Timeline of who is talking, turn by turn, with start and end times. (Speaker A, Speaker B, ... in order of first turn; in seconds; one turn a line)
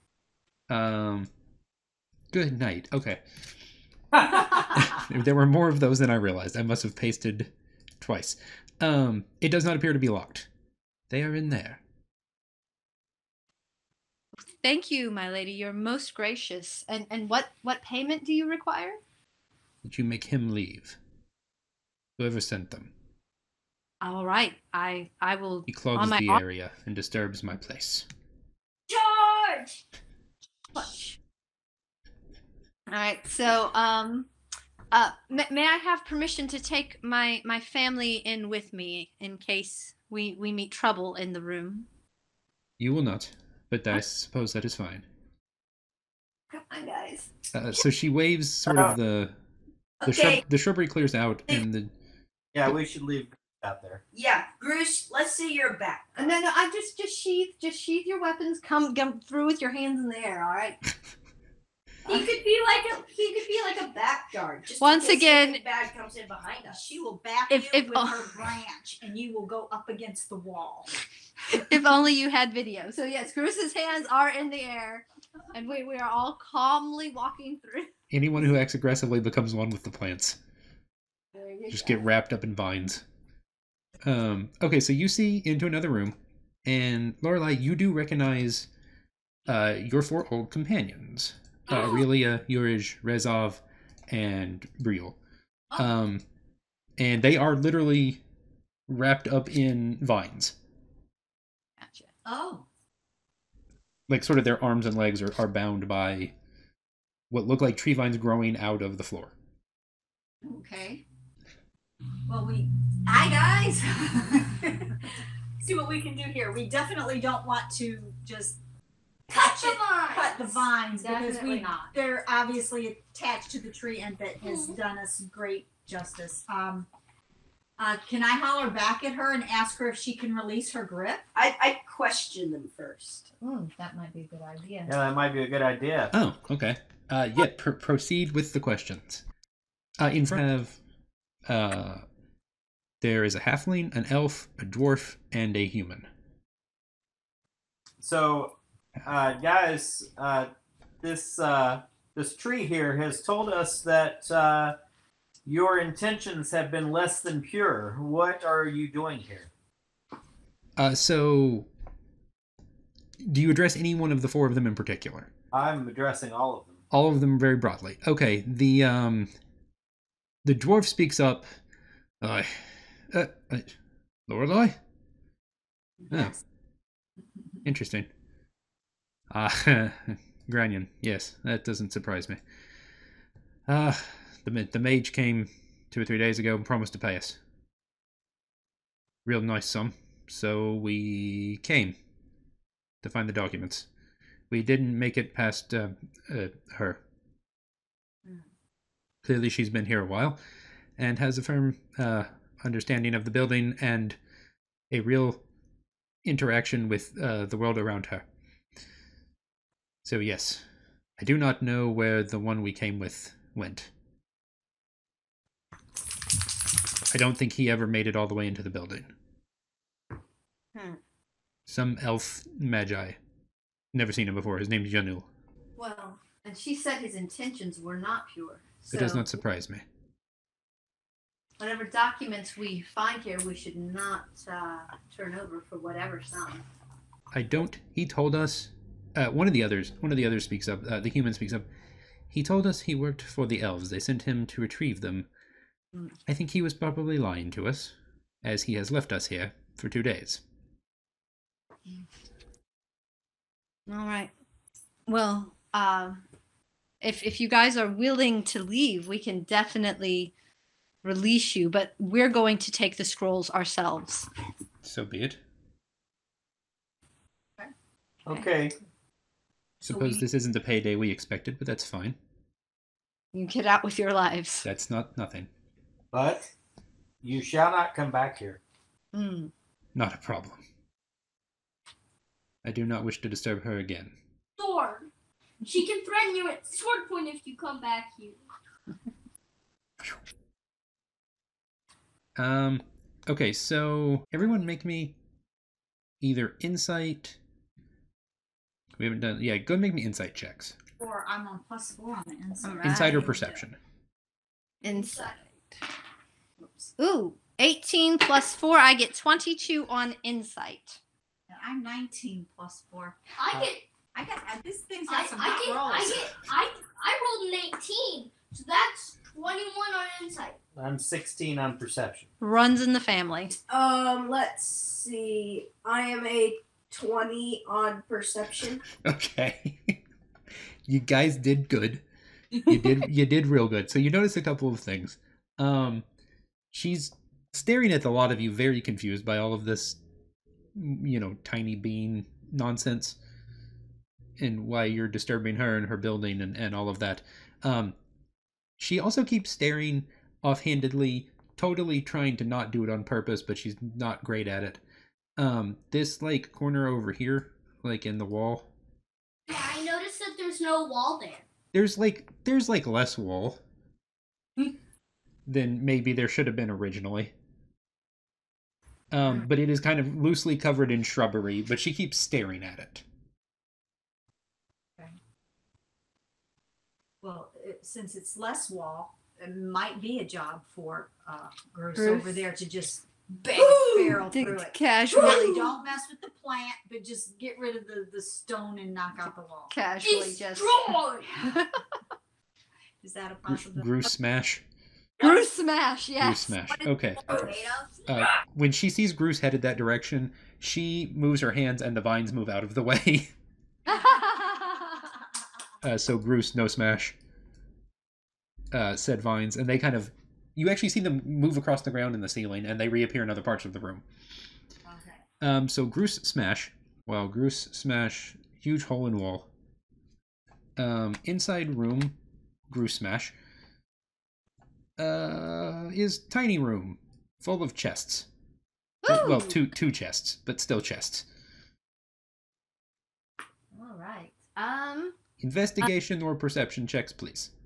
Speaker A: 0.7-1.3
Speaker A: 2.3-3.2
Speaker A: 4.2-10.5
Speaker A: 11.1-11.8
Speaker B: 14.6-19.0
Speaker A: 19.8-21.0
Speaker A: 22.2-22.9
Speaker B: 24.0-26.4
Speaker A: 25.7-28.1
Speaker C: 28.9-29.8
Speaker B: 30.7-31.2
Speaker B: 32.9-34.3
Speaker B: 34.9-41.9
Speaker A: 42.8-45.1
Speaker B: 46.5-47.3
Speaker A: 47.5-49.4
Speaker D: 48.7-48.9
Speaker E: 50.0-50.4
Speaker A: 50.0-51.9
Speaker D: 52.5-54.0
Speaker E: 54.1-56.4
Speaker B: 56.2-60.8
Speaker E: 62.1-67.0
Speaker B: 64.8-65.6
Speaker F: 66.7-70.9
Speaker B: 67.5-68.2
Speaker B: 71.5-77.9
Speaker A: 78.1-80.4
Speaker B: 81.3-82.0
Speaker A: 81.7-83.0
Speaker A: 84.0-88.7
Speaker A: 89.5-95.2
Speaker A: 95.8-96.2
Speaker A: 97.0-98.2
Speaker A: 98.9-100.5
Speaker B: 101.8-102.1
Speaker F: 102.2-102.7
Speaker A: 104.1-106.3
Speaker A: 107.3-109.3
Speaker F: 110.4-111.0
Speaker F: 112.3-115.1
Speaker E: 115.6-116.3
Speaker F: 115.6-118.6
Speaker C: 119.3-120.7
Speaker F: 119.3-126.9
Speaker B: 121.0-121.9
Speaker C: 124.4-124.8
Speaker F: 127.8-131.3
Speaker E: 131.3-133.3
Speaker B: 133.4-135.0
Speaker D: 134.9-136.1
Speaker A: 136.1-139.2
Speaker A: 140.0-140.8
Speaker A: 141.5-142.1
Speaker A: 143.0-146.1
Speaker D: 148.0-154.8
Speaker D: 155.4-159.5
Speaker A: 160.8-161.7
Speaker A: 163.2-165.3
Speaker D: 165.5-166.8
Speaker A: 166.9-169.3
Speaker A: 170.4-171.5
Speaker A: 172.2-173.8
Speaker A: 174.3-174.8
Speaker A: 176.1-176.4
Speaker A: 177.7-178.1
Speaker A: 179.3-182.4
Speaker A: 183.7-187.4
Speaker A: 189.2-192.0
Speaker A: 193.0-193.9
Speaker A: 194.5-197.0
Speaker A: 199.2-200.4
Speaker A: 201.0-204.2
Speaker A: 204.9-205.4
Speaker A: 206.2-208.2
Speaker A: 210.0-210.6
Speaker A: 211.2-213.9
Speaker A: 217.1-219.1
Speaker B: 220.8-221.0
Speaker A: 221.7-223.2
Speaker A: 223.9-225.3
Speaker B: 225.8-229.4
Speaker A: 228.9-229.8
Speaker B: 231.6-236.7
Speaker A: 237.3-241.7
Speaker A: 242.3-245.3
Speaker A: 246.3-250.4
Speaker B: 253.9-254.3
Speaker B: 255.1-256.2
Speaker B: 257.0-260.3
Speaker B: 261.0-264.3
Speaker A: 264.8-265.4
Speaker D: 268.3-268.8
Speaker A: 269.8-272.2
Speaker F: 269.9-270.2
Speaker B: 273.3-274.7
Speaker A: 274.6-275.5
Speaker D: 276.1-276.5
Speaker D: 277.2-278.6
Speaker B: 279.1-279.5
Speaker A: 279.9-280.6
Speaker A: 282.6-284.2
Speaker C: 284.6-285.1
Speaker C: 285.6-288.4
Speaker A: 292.4-295.2
Speaker A: 296.2-297.4
Speaker A: 299.0-300.8
Speaker F: 301.0-303.5
Speaker B: 302.6-303.4
Speaker A: 302.8-303.8
Speaker B: 304.8-305.4
Speaker F: 306.6-306.9
Speaker B: 307.0-311.0
Speaker F: 311.5-313.2
Speaker C: 313.4-313.9
Speaker F: 314.1-316.3
Speaker C: 315.1-320.6
Speaker D: 320.8-322.3
Speaker B: 322.4-323.6
Speaker E: 323.7-328.8
Speaker A: 329.0-330.0
Speaker A: 330.9-332.0
Speaker A: 332.7-336.1
Speaker A: 336.7-340.0
Speaker A: 340.7-343.2
Speaker A: 344.4-347.9
Speaker A: 348.8-354.8
Speaker A: 355.4-358.7
Speaker C: 359.5-361.5
Speaker A: 361.7-363.6
Speaker A: 365.5-367.3
Speaker A: 369.1-373.0
Speaker F: 377.2-389.7
Speaker B: 381.9-382.5
Speaker E: 383.4-384.2
Speaker B: 384.3-385.7
Speaker B: 389.7-391.8
Speaker C: 390.0-391.4
Speaker F: 393.0-393.9
Speaker A: 393.5-394.6
Speaker B: 395.2-396.6
Speaker A: 396.2-397.5
Speaker F: 397.4-397.7
Speaker A: 398.1-403.3
Speaker B: 403.9-404.9
Speaker A: 405.8-407.2
Speaker A: 408.7-414.0
Speaker F: 414.9-415.2
Speaker A: 415.4-419.5
Speaker A: 420.8-422.1
Speaker A: 422.7-423.4
Speaker A: 425.0-428.3
Speaker B: 429.0-429.6
Speaker A: 429.1-431.3
Speaker B: 433.7-435.1
Speaker A: 435.4-437.5